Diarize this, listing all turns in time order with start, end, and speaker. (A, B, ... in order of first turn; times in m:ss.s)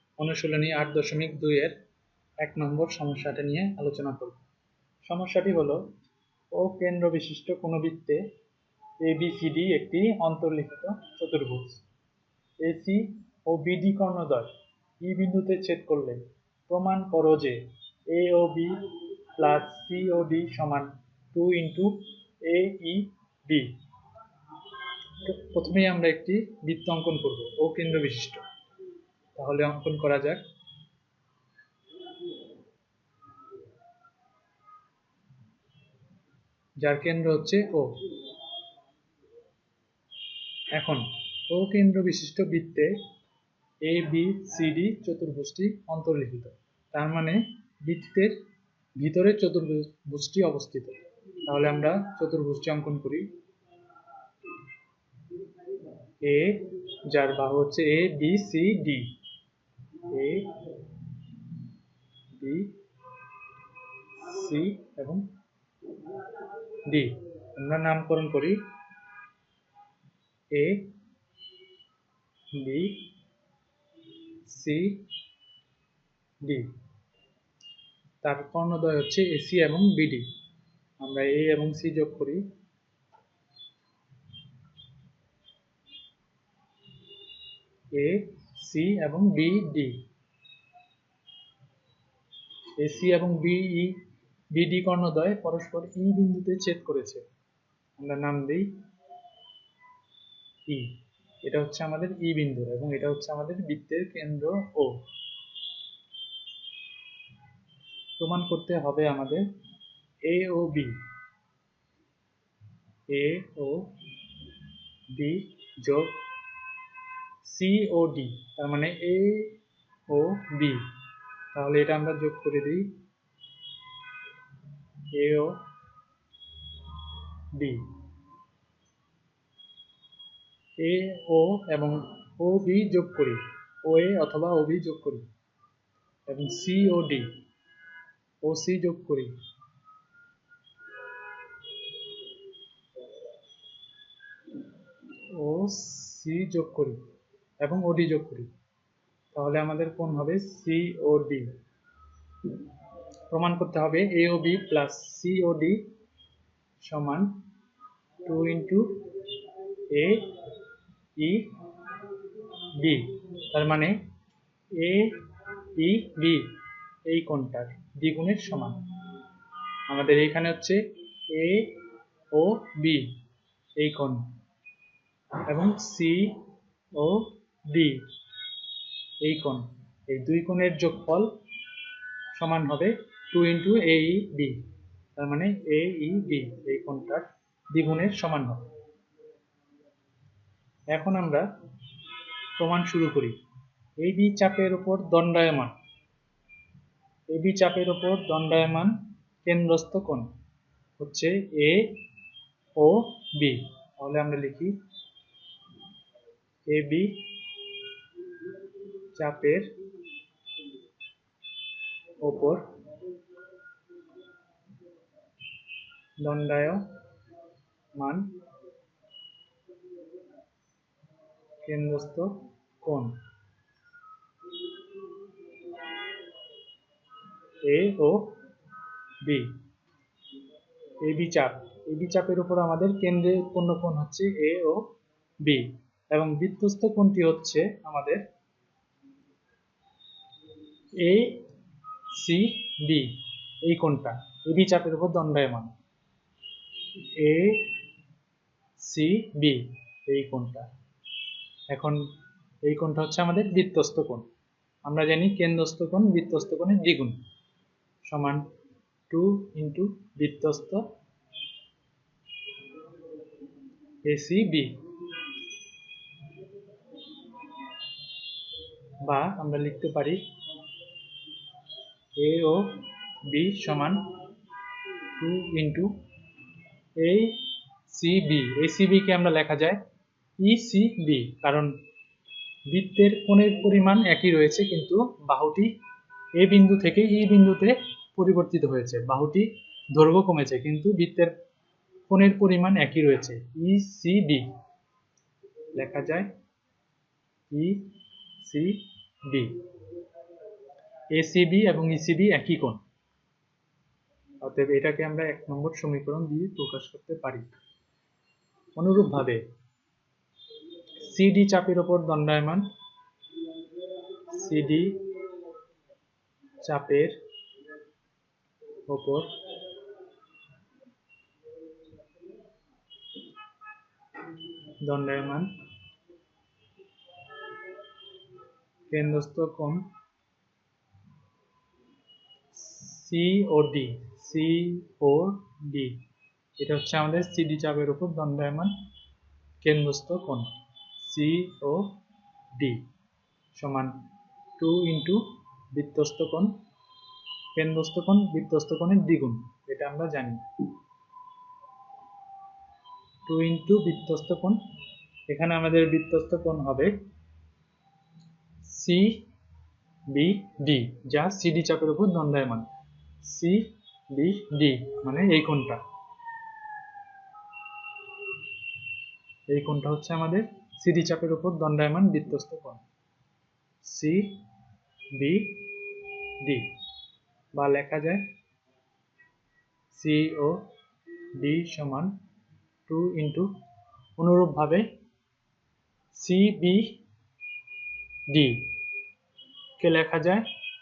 0:00.2-0:01.7 A
0:02.4-0:04.4 A
0:05.0-0:05.8 A
0:06.5-0:08.2 A
0:09.0-0:11.8 A
0:12.6-0:18.8 A
0:19.4-0:23.7 A
0:25.2-0:28.4 A
0:29.4-0:30.4 A
0:36.8-0:37.9 A
0:40.7-0:43.0 A
0:43.8-0:48.4 A
0:49.0-0:53.3 A
0:56.2-0:59.1 A
1:00.1-1:00.6 A
1:02.3-1:02.7 A
1:04.2-1:05.2 A
1:06.8-1:08.6 A
1:10.5-1:10.9 A
1:12.6-1:13.1 A
1:14.4-1:15.1 A
1:16.4-1:16.7 A
1:18.2-1:20.3 A
1:21.0-1:22.4 A
1:27.9-1:30.0 A
1:32.8-1:34.0 A
1:34.5-1:37.2 A
1:38.0-1:38.7 A
1:40.7-1:45.0 A
1:48.2-1:49.4 A
1:50.2-1:51.0 A
1:53.1-1:53.9 A
1:55.1-1:56.2 A
1:57.4-1:59.6 A
2:00.1-2:00.9 A
2:01.5-2:02.9 A
2:05.1-2:05.6 A
2:07.5-2:07.8 A
2:10.8-2:15.2 A
2:16.3-2:17.4 A
2:18.4-2:19.3 A
2:25.3-2:27.0 A
2:27.6-2:28.5 A
2:29.3-2:31.5 A
2:33.3-2:35.9 A
2:36.8-2:37.4 A
2:38.2-2:39.0 A
2:39.8-2:40.3 A
2:41.2-2:41.6 A
2:42.8-2:44.0 A
2:44.8-2:45.2 A
2:45.7-2:46.6 A
2:47.1-2:48.8 A
2:49.9-2:51.8 A
2:52.3-2:53.1 A
2:53.8-2:54.2 A
2:55.4-2:56.4 A
2:56.9-2:58.0 A
2:59.2-3:01.3 A
3:02.3-3:04.6 A
3:05.2-3:08.6 A
3:10.9-3:11.5 A
3:12.6-3:13.4 A
3:14.0-3:15.7 A
3:17.3-3:18.9 A
3:19.4-3:20.3 A
3:21.0-3:22.0 A
3:22.8-3:24.7 A
3:26.6-3:27.2 A
3:29.1-3:29.7 A
3:32.2-3:32.6 A
3:36.2-3:36.9 A
3:37.9-3:38.3 A
3:41.6-3:43.2 A
3:47.6-3:48.3 A
3:49.2-3:49.6 A
3:51.0-3:54.8 A
3:55.4-3:58.2 A
4:01.0-4:01.4 A
4:02.1-4:03.1 A
4:03.6-4:05.7 A
4:07.2-4:07.7 A
4:08.8-4:10.7 A
4:11.7-4:12.0 A
4:12.6-4:14.2 A
4:14.8-4:17.2 A
4:18.0-4:18.4 A
4:19.1-4:20.8 A
4:24.0-4:24.8 A
4:29.0-4:30.2 A
4:32.2-4:34.1 A
4:35.2-4:35.9 A
4:37.0-4:39.8 A
4:40.4-4:41.7 A
4:42.7-4:45.7 A
4:46.4-4:51.3 A
4:52.1-4:54.5 A
4:55.8-4:56.3 A
4:57.5-4:59.6 A
5:01.1-5:02.8 A
5:04.4-5:07.5 A
5:08.8-5:09.4 A
5:11.0-5:12.6 A
5:14.2-5:15.0 A
5:16.6-5:17.1 A
5:18.9-5:19.3 A
5:24.8-5:25.5 A
5:28.9-5:29.9 A
5:32.5-5:36.0 A
5:36.6-5:38.8 A
5:39.6-5:42.0 A
5:42.5-5:42.8 A
5:43.5-5:44.0 A
5:44.6-5:46.5 A
5:47.5-5:50.4 A
5:53.3-5:54.6 A
5:55.3-5:56.9 A
5:58.6-5:59.2 A
6:00.1-6:02.7 A
6:03.2-6:05.8 A
6:09.5-6:12.8 A
6:13.8-6:14.4 A
6:15.1-6:15.7 A
6:16.4-6:16.7 A
6:17.5-6:18.2 A
6:19.9-6:20.7 A
6:21.4-6:22.1 A
6:22.9-6:23.5 A
6:24.2-6:24.8 A
6:26.1-6:27.0 A
6:28.3-6:28.7 A
6:29.8-6:30.5 A